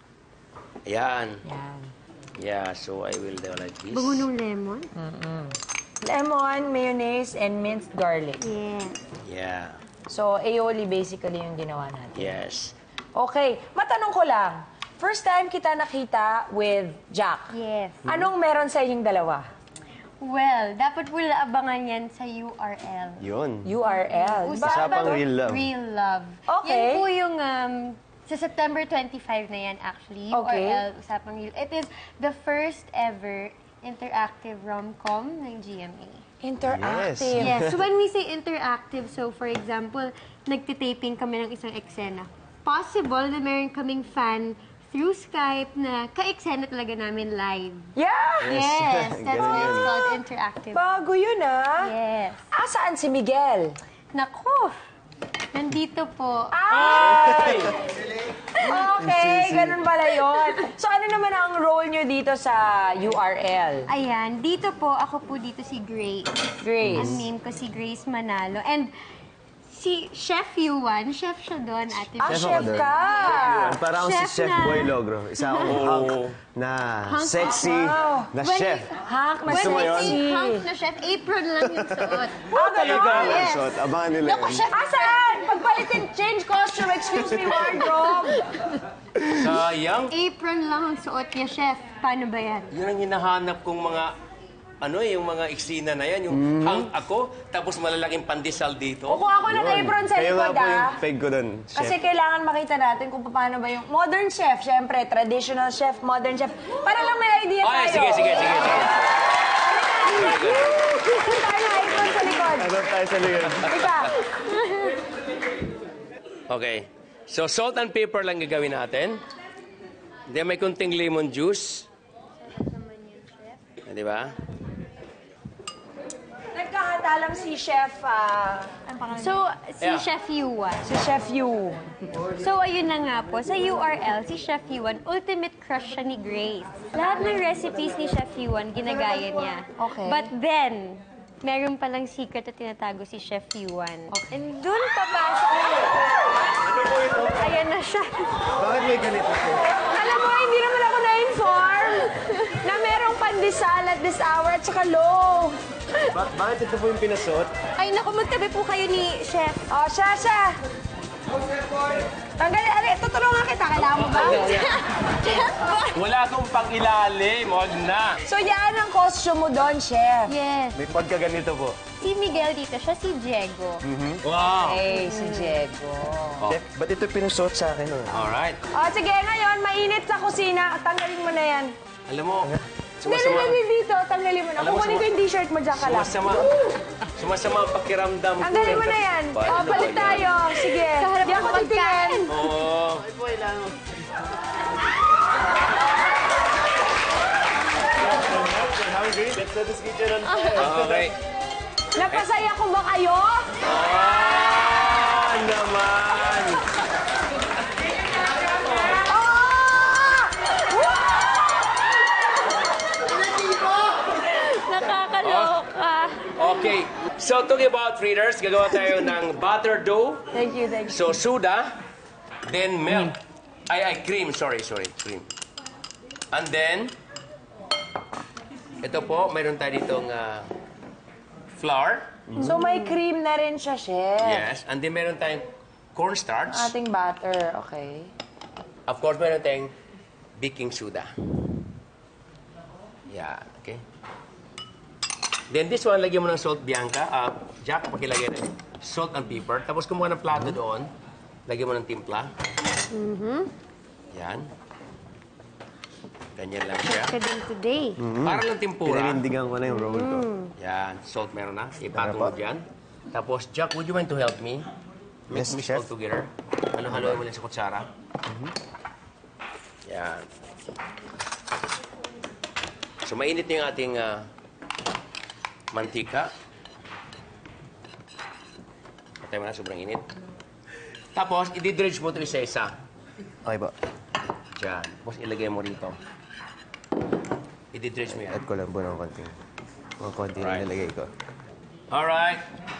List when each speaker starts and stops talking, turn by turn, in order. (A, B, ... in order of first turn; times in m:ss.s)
0:00.9-0:01.4 A
0:01.4-0:01.9 B
0:02.4-0:04.3 A
0:03.9-0:04.9 C
0:05.0-0:08.4 B
0:08.4-0:09.0 C
0:09.2-0:09.8 A
0:10.1-0:12.4 B
0:12.2-0:12.8 A
0:13.2-0:17.5 B
0:17.5-0:18.0 C
0:18.0-0:19.5 B
0:20.2-0:23.3 C
0:23.2-0:23.7 D
0:23.6-0:25.1 B
0:23.8-0:36.2 C
0:24.6-0:25.7 D
0:26.5-0:27.1 B
0:30.3-0:30.8 B
0:36.4-0:37.5 B
0:36.7-0:37.8 D
0:37.4-0:47.9 C
0:48.0-0:48.6 B
0:48.4-0:50.8 C
0:48.5-0:49.9 D
0:50.7-0:51.9 B
0:51.8-0:52.4 C
0:52.5-0:53.8 B
0:54.1-0:54.7 C
0:55.5-0:56.6 C
0:56.5-0:57.8 B
0:56.7-0:57.7 A
0:57.1-0:57.6 D
0:58.6-1:03.9 B
0:59.0-0:59.8 D
1:03.9-1:08.9 C
1:06.6-1:07.2 B
1:06.8-1:07.2 D
1:09.7-1:15.8 C
1:12.2-1:13.8 B
1:12.2-1:18.9 D
1:15.6-1:16.4 A
1:17.1-1:25.4 C
1:17.7-1:18.3 B
1:19.0-1:20.7 B
1:19.4-1:20.2 D
1:21.7-1:24.7 D
1:22.5-1:23.4 B
1:22.6-1:23.4 A
1:24.7-1:28.5 B
1:27.5-1:28.3 C
1:29.3-1:30.1 A
1:30.1-1:32.7 C
1:32.7-1:34.1 A
1:34.8-1:39.2 A
1:36.3-1:36.9 D
1:39.1-1:41.0 B
1:39.5-1:42.0 D
1:41.7-1:48.8 B
1:47.6-1:49.2 A
1:49.8-1:52.8 B
1:50.0-1:51.0 A
1:51.9-1:52.3 A
1:52.6-1:53.7 D
1:53.4-1:54.1 A
1:53.7-1:54.2 B
1:54.3-1:54.9 C
1:56.5-1:59.2 A
2:00.3-2:01.9 A
2:02.5-2:03.6 C
2:03.8-2:04.4 A
2:06.5-2:09.4 B
2:09.2-2:10.9 C
2:09.8-2:10.1 A
2:10.8-2:11.8 B
2:12.3-2:25.8 C
2:19.8-2:20.3 B
2:24.1-2:26.0 B
2:26.7-2:28.5 C
2:28.6-2:29.7 D
2:29.9-2:35.6 B
2:36.1-2:37.5 D
2:37.8-2:39.6 C
2:39.7-2:40.6 B
2:42.4-2:44.7 B
2:44.0-2:46.0 C
2:45.9-2:48.2 A
2:48.3-2:50.3 B
2:50.3-2:50.8 C
2:50.7-2:51.8 D
2:52.0-2:53.8 C
2:53.8-2:54.2 D
2:54.2-2:54.9 A
2:54.6-2:56.5 B
2:54.9-2:55.6 C
2:56.5-2:58.3 D
2:58.1-2:58.6 A
2:58.7-3:01.7 B
3:02.1-3:03.6 A
3:03.0-3:06.5 B
3:04.6-3:05.1 A
3:05.7-3:06.6 A
3:07.2-3:10.3 A
3:08.4-3:12.3 B
3:10.5-3:12.4 C
3:12.3-3:13.0 A
3:13.0-3:13.9 D
3:18.1-3:21.1 D
3:20.3-3:20.7 C
3:20.6-3:21.2 A
3:21.9-3:23.5 B
3:23.6-3:26.6 A
3:28.9-3:31.4 B
3:33.3-3:36.5 C
3:35.2-3:35.6 A
3:36.3-3:40.3 A
3:40.3-3:41.2 B
3:40.9-3:41.7 A
3:42.5-3:43.2 A
3:43.7-3:45.3 A
3:46.3-3:46.9 A
3:48.8-3:50.5 A
3:51.6-3:52.2 A
3:52.3-3:52.6 D
3:52.4-3:54.5 B
3:52.4-3:52.9 C
3:54.2-3:56.7 A
3:56.5-3:58.1 B
3:58.9-3:59.7 A
4:00.4-4:01.1 A
4:03.1-4:03.8 A
4:05.5-4:10.9 A
4:11.5-4:12.3 A
4:12.9-4:13.5 C
4:14.1-4:14.5 A
4:16.4-4:17.2 A
4:16.8-4:18.0 C
4:18.0-4:20.3 D
4:18.2-4:19.2 A
4:19.7-4:20.5 C
4:20.6-4:24.7 A
4:21.9-4:22.4 D
4:25.3-4:27.9 A
4:25.3-4:25.9 D
4:26.9-4:27.2 D
4:29.9-4:30.3 A
4:33.0-4:34.3 A
4:35.7-4:36.3 A
4:39.2-4:40.1 A
4:41.2-4:42.8 A
4:43.4-4:43.7 D
4:44.6-4:46.0 A
4:47.7-4:48.4 A
4:48.1-4:49.4 D
4:50.0-4:51.1 D
4:50.4-4:50.7 A
4:51.9-4:52.4 A